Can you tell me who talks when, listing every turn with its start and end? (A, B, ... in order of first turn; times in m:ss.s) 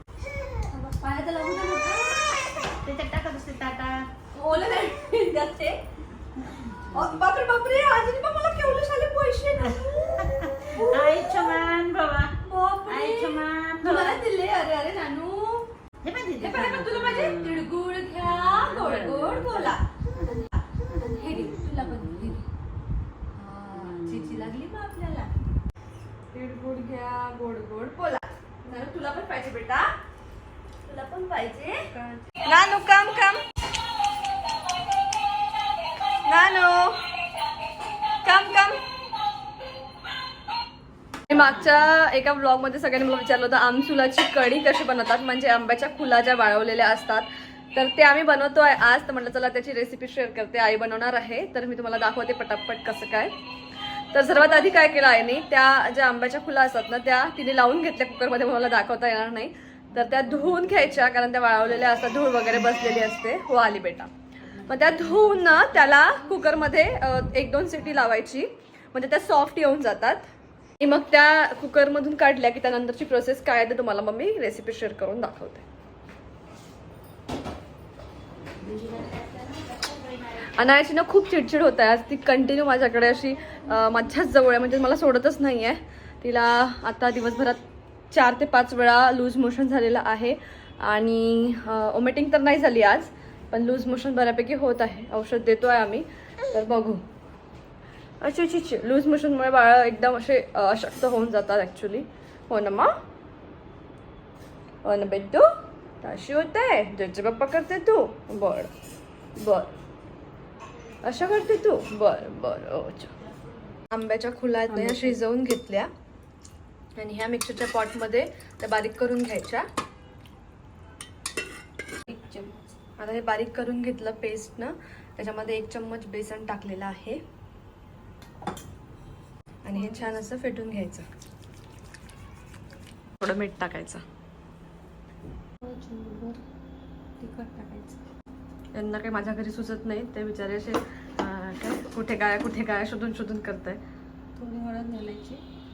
0:00.7-0:02.3 A
0:01.0-0:02.0 B
0:02.5-0:04.0 C
0:04.3-0:05.8 A
0:06.4-0:07.2 C
0:06.9-0:11.6 A
0:09.6-0:12.3 C
0:12.4-0:15.7 A
0:12.9-0:14.2 C
0:16.0-0:22.4 C
0:16.4-0:19.8 A
0:21.0-0:22.4 A
0:23.4-0:25.3 A
0:23.7-0:24.6 C
0:26.3-0:29.9 A
0:30.9-0:33.4 A
0:36.3-0:37.0 A
0:38.2-0:38.8 A
0:41.3-0:53.3 A
0:54.1-1:04.1 A
1:04.6-1:05.6 C
1:04.6-1:10.3 A
1:10.8-1:15.6 A
1:18.6-1:20.8 C
1:20.5-1:37.0 A
1:38.2-1:42.9 A
1:44.8-1:45.5 A
1:46.0-1:48.7 A
1:49.4-1:49.7 A
1:51.0-1:53.1 A
1:53.9-1:55.9 A
1:54.7-1:55.2 B
1:57.0-1:59.6 A
2:02.1-2:07.2 A
2:09.6-2:11.0 A
2:09.8-2:10.1 B
2:13.2-2:14.0 A
2:15.6-2:16.4 B
2:17.2-2:18.0 B
2:18.7-2:23.8 A
2:24.4-2:25.4 B